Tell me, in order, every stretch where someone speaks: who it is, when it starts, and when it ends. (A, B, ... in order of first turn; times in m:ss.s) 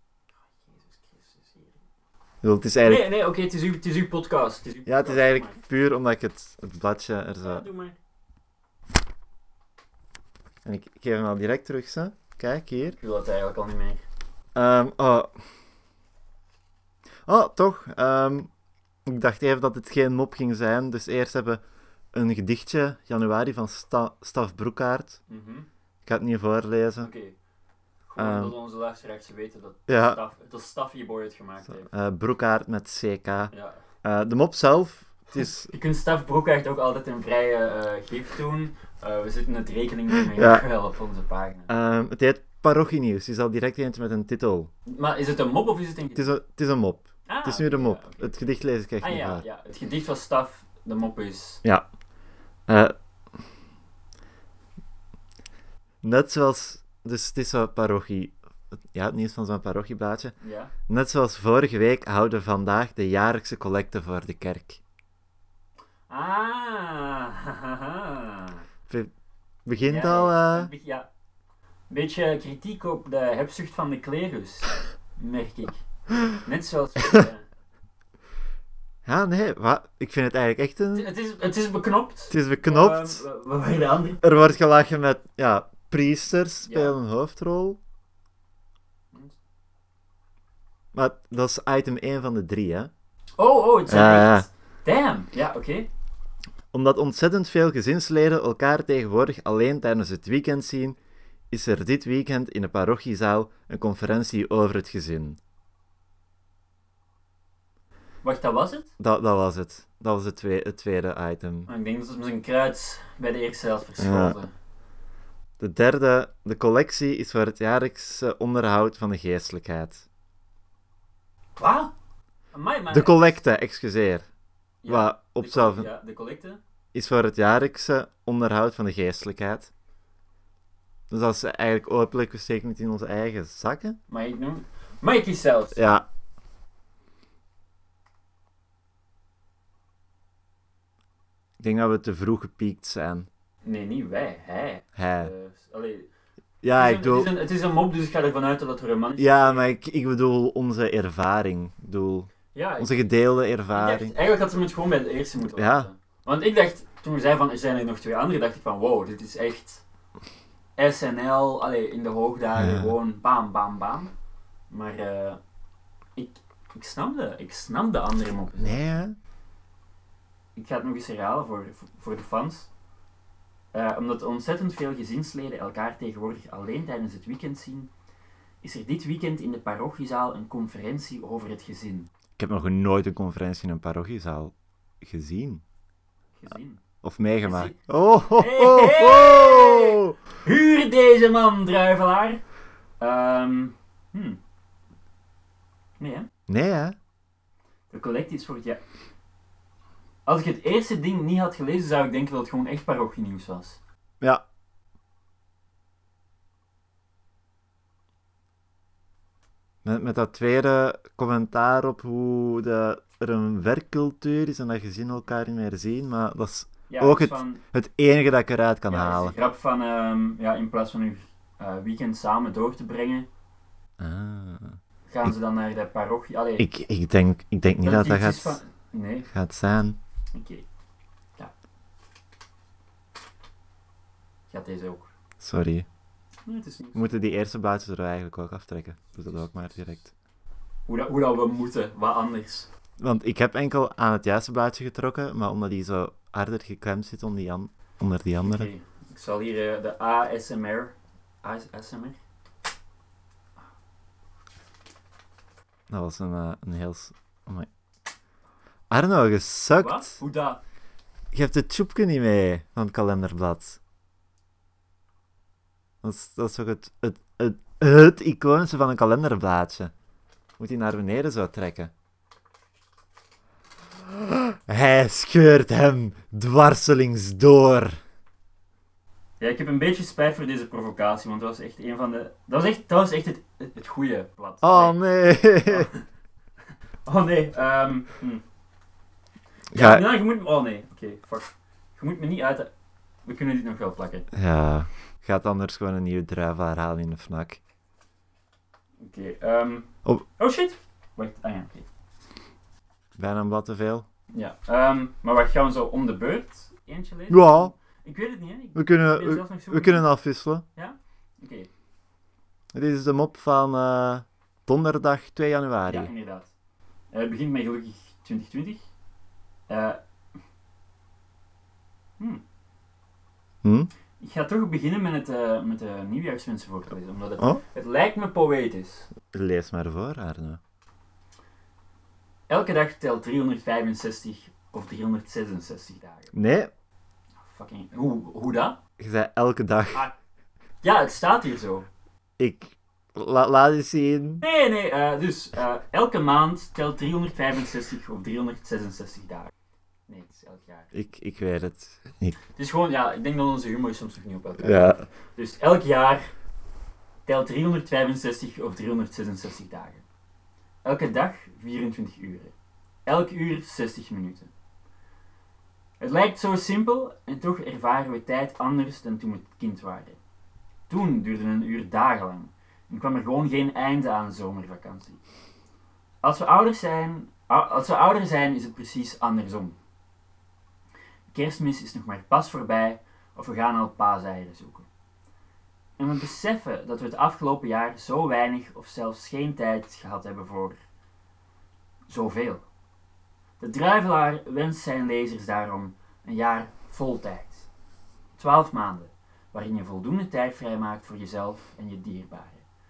0:00.5-0:01.8 A
0:02.4-0:03.1 B
0:02.8-0:05.6 A
0:04.9-0:07.6 B
0:07.4-0:08.0 A
0:10.6-0:13.0 B
0:12.9-0:14.0 A
0:14.5-0:15.3 B
0:17.2-0:18.5 B
0:19.0-0:21.6 B
0:22.1-0:25.2 B
0:25.3-0:25.7 A
0:26.0-0:27.1 B
0:27.0-0:27.4 A
0:28.1-0:31.9 A
0:28.2-0:28.5 B
0:29.9-0:30.2 B
0:31.8-0:33.5 B
0:33.5-0:33.8 A
0:34.0-0:35.7 B
0:35.7-0:41.7 A
0:40.3-0:40.6 B
0:41.7-0:44.7 B
0:44.8-0:46.3 A
0:46.2-0:49.4 B
0:47.3-0:48.4 A
0:49.0-0:51.6 A
0:52.7-0:52.9 B
0:56.0-0:58.4 B
0:58.9-1:00.3 B
1:00.4-1:00.7 A
1:00.9-1:04.8 B
1:06.1-1:08.6 A
1:09.6-1:10.7 B
1:09.8-1:11.1 A
1:11.9-1:17.4 A
1:19.0-1:21.1 B
1:20.9-1:24.2 A
1:22.3-1:23.2 B
1:24.2-1:27.8 B
1:26.6-1:26.9 A
1:30.9-1:32.9 B
1:33.4-1:35.9 A
1:33.9-1:34.5 B
1:36.7-1:41.0 B
1:41.5-1:45.4 B
1:48.2-1:48.9 A
1:49.0-1:51.7 B
1:51.7-1:54.5 A
1:54.0-1:54.4 B
1:55.6-2:00.0 B
2:01.6-2:01.9 A
2:02.5-2:03.4 A
2:02.9-2:04.2 B
2:04.8-2:06.6 A
2:04.9-2:05.9 B
2:06.9-2:09.7 B
2:11.1-2:14.0 B
2:14.1-2:16.0 A
2:15.7-2:16.0 B
2:21.6-2:23.3 B
2:23.6-2:26.1 A
2:24.9-2:25.3 B
2:26.6-2:27.3 B
2:26.7-2:29.6 A
2:29.2-2:34.1 B
2:32.5-2:33.0 A
2:33.7-2:39.8 A
2:35.5-2:35.9 B
2:40.8-2:44.1 A
2:42.6-2:43.0 B
2:44.7-2:45.4 A
2:46.2-2:48.8 A
2:48.6-2:49.2 B
2:50.6-2:52.7 A
2:53.7-2:57.9 A
2:58.6-3:02.1 A
3:02.4-3:05.6 B
3:06.4-3:06.8 A
3:07.0-3:10.1 B
3:07.4-3:07.8 A
3:08.3-3:12.4 A
3:13.0-3:14.4 A
3:16.0-3:16.3 A
3:16.5-3:17.0 B
3:17.9-3:18.8 A
3:20.2-3:23.8 A
3:29.8-3:39.3 B
3:36.9-3:37.6 A
3:38.9-3:43.3 A
3:44.0-3:45.3 B
3:45.1-3:46.6 A
3:46.6-3:48.6 B
3:47.8-3:49.3 A
3:49.3-3:50.0 B
3:50.3-3:50.6 A
3:54.5-3:55.1 A
3:55.4-3:55.9 B
3:56.4-3:57.3 A
3:56.9-4:00.1 B
4:00.9-4:02.7 A
4:03.0-4:08.7 B
4:08.4-4:12.2 A
4:15.9-4:17.7 B
4:18.9-4:20.2 B
4:19.8-4:20.6 A
4:21.3-4:23.8 B
4:26.0-4:29.9 B
4:30.6-4:31.9 B
4:34.3-4:38.0 B
4:39.4-4:46.0 A
4:44.6-4:45.9 B
4:47.0-4:48.4 A
4:49.7-4:50.1 B
4:49.7-4:52.7 A
4:53.2-4:54.3 A
4:54.3-4:57.6 B
4:59.0-5:01.9 A
5:03.2-5:04.0 B
5:04.3-5:10.0 A
5:07.3-5:07.7 B
5:08.7-5:10.6 B
5:10.8-5:11.7 A
5:12.7-5:16.1 B
5:15.9-5:16.5 A
5:17.1-5:18.8 A
5:19.7-5:20.0 A
5:23.6-5:23.9 B
5:24.2-5:29.1 A
5:29.3-5:30.6 B
5:32.5-5:36.3 A
5:36.3-5:36.7 B
5:37.4-5:38.8 A
5:39.0-5:40.1 B
5:40.8-5:41.9 A
5:42.4-5:44.4 B
5:44.4-5:49.5 A
5:50.1-5:50.9 A
5:50.9-5:52.4 B
5:52.6-5:56.3 A
5:54.6-5:55.0 B
5:57.2-6:00.0 A
6:00.8-6:02.5 A
6:03.0-6:04.5 A
6:06.0-6:10.2 A
6:10.9-6:15.2 A
6:16.2-6:19.8 A
6:21.3-6:24.9 A
6:26.0-6:30.8 A
6:32.1-6:32.6 A
6:33.6-6:37.7 A
6:38.4-6:42.6 A